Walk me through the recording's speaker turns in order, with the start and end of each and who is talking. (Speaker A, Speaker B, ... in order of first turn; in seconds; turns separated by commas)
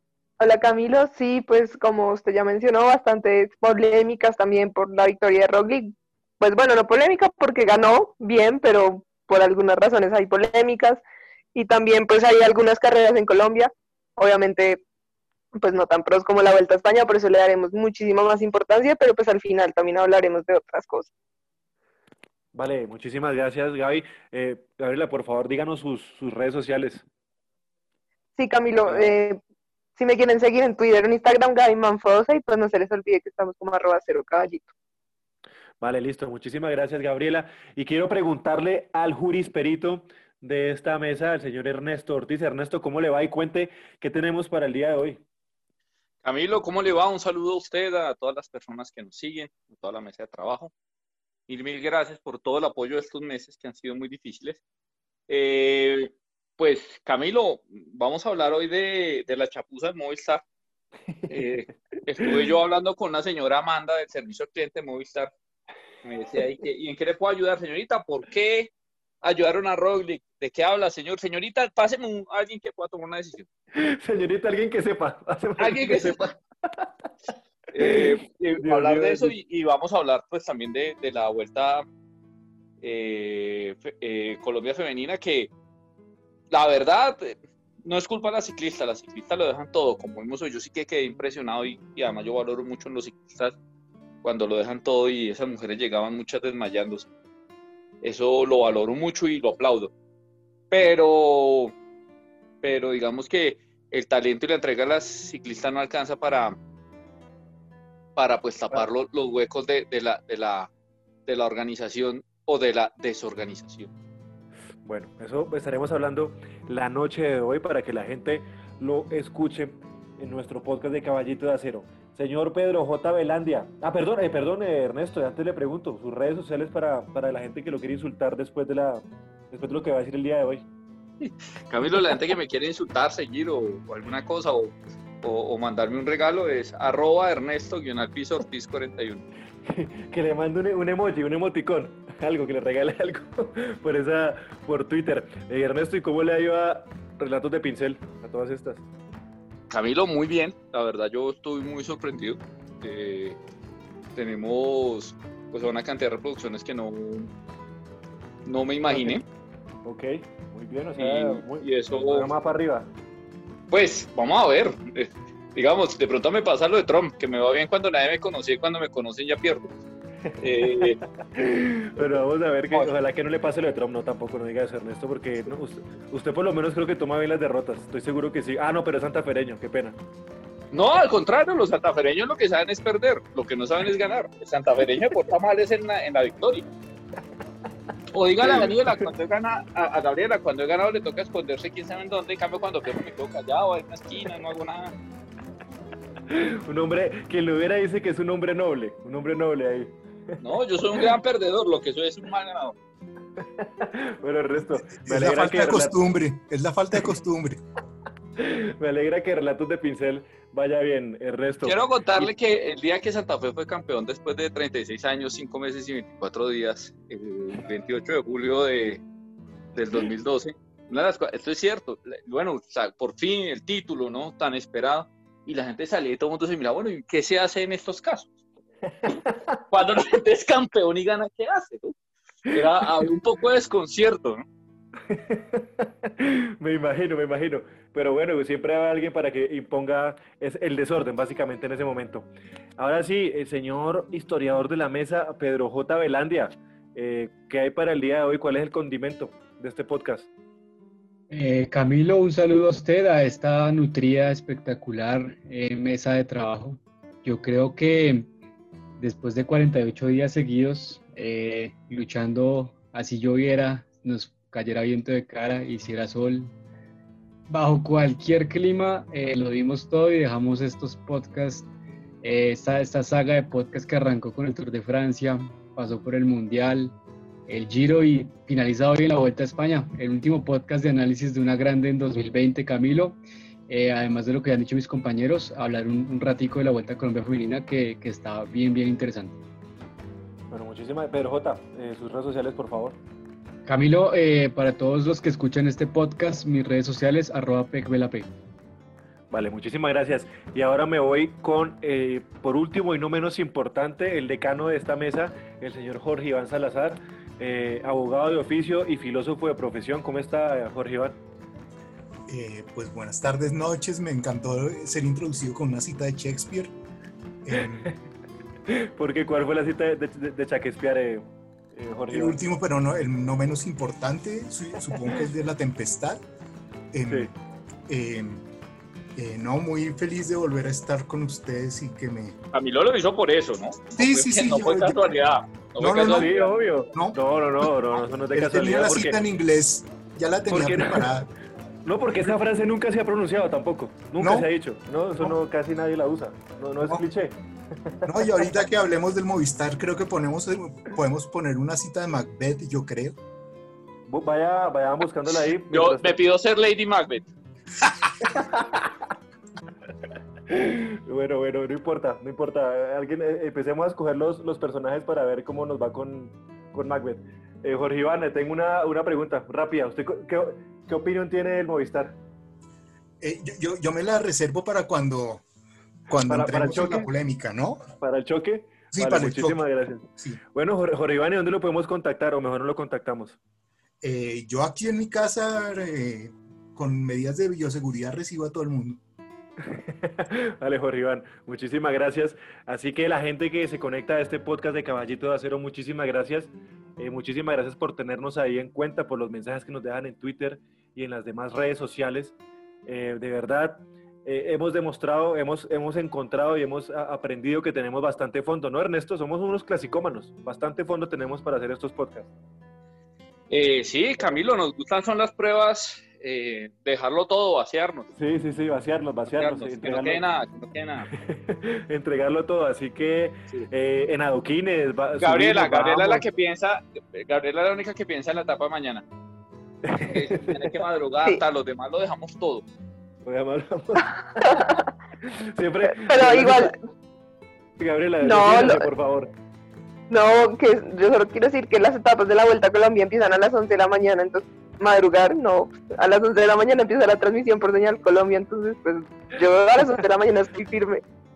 Speaker A: 0.4-11.0, Speaker A: 11.5-14.8, Speaker A: 15.6-21.1, Speaker B: 22.5-27.1, Speaker A: 28.4-29.4, Speaker B: 28.9-29.1, Speaker A: 30.0-34.7, Speaker B: 35.8-45.2, Speaker C: 46.2-50.7, Speaker C: 51.5-54.6, Speaker C: 55.3-60.4, Speaker B: 61.1-62.4, Speaker C: 61.3-65.3, Speaker C: 66.0-73.5, Speaker B: 73.7-76.9, Speaker C: 75.6-76.3, Speaker B: 77.7-79.3, Speaker C: 77.7-81.8, Speaker C: 82.8-85.5, Speaker C: 86.5-93.5, Speaker C: 94.2-97.1, Speaker C: 98.0-99.9, Speaker C: 100.7-101.7, Speaker C: 102.6-106.5, Speaker C: 108.2-110.7, Speaker C: 111.2-113.9, Speaker B: 114.8-130.7, Speaker C: 131.2-139.2, Speaker B: 139.6-148.9, Speaker C: 149.7-153.4, Speaker C: 154.1-157.3, Speaker C: 158.4-159.2, Speaker B: 158.9-159.2, Speaker B: 159.8-162.9, Speaker C: 160.9-162.3, Speaker C: 163.7-169.7, Speaker B: 170.2-180.0, Speaker C: 170.4-171.0, Speaker C: 180.7-186.7, Speaker C: 188.1-194.9, Speaker B: 188.4-188.9, Speaker B: 196.3-201.1, Speaker C: 200.4-202.8, Speaker B: 203.4-206.0, Speaker D: 204.9-207.6, Speaker B: 208.4-212.3, Speaker C: 211.6-219.0, Speaker C: 219.7-228.3, Speaker B: 228.9-229.6, Speaker C: 229.7-231.9, Speaker C: 232.5-234.4, Speaker B: 235.1-250.3, Speaker E: 251.3-258.3, Speaker E: 259.0-266.5, Speaker E: 267.5-271.7, Speaker E: 272.2-276.9, Speaker E: 277.5-289.4, Speaker B: 290.5-293.0, Speaker E: 293.6-298.3, Speaker B: 299.3-311.2, Speaker D: 312.3-316.7, Speaker D: 317.4-317.9, Speaker B: 318.7-322.4, Speaker D: 322.1-326.2, Speaker D: 326.9-327.3, Speaker D: 327.9-328.4, Speaker D: 329.1-332.4, Speaker C: 332.5-336.5, Speaker D: 333.9-335.1, Speaker D: 335.8-336.3, Speaker B: 336.0-339.2, Speaker D: 336.9-337.7, Speaker D: 338.3-341.3, Speaker B: 340.5-341.3, Speaker B: 341.8-348.4, Speaker D: 344.2-344.5, Speaker D: 348.1-353.1, Speaker B: 354.1-356.2, Speaker C: 355.7-357.3, Speaker B: 358.3-358.9, Speaker B: 360.5-372.2, Speaker D: 373.2-375.4, Speaker D: 376.1-377.9, Speaker B: 376.3-377.1, Speaker B: 377.9-383.4, Speaker D: 378.9-379.6, Speaker D: 384.0-389.0, Speaker B: 389.7-412.3, Speaker C: 413.5-418.1, Speaker B: 418.1-420.2, Speaker C: 419.2-421.1, Speaker B: 421.1-426.2, Speaker C: 425.2-429.0, Speaker B: 429.8-430.7, Speaker C: 430.0-432.6, Speaker B: 433.2-434.6, Speaker B: 435.2-436.7, Speaker A: 436.0-436.7, Speaker B: 437.8-439.3, Speaker A: 438.2-438.9, Speaker A: 440.1-451.0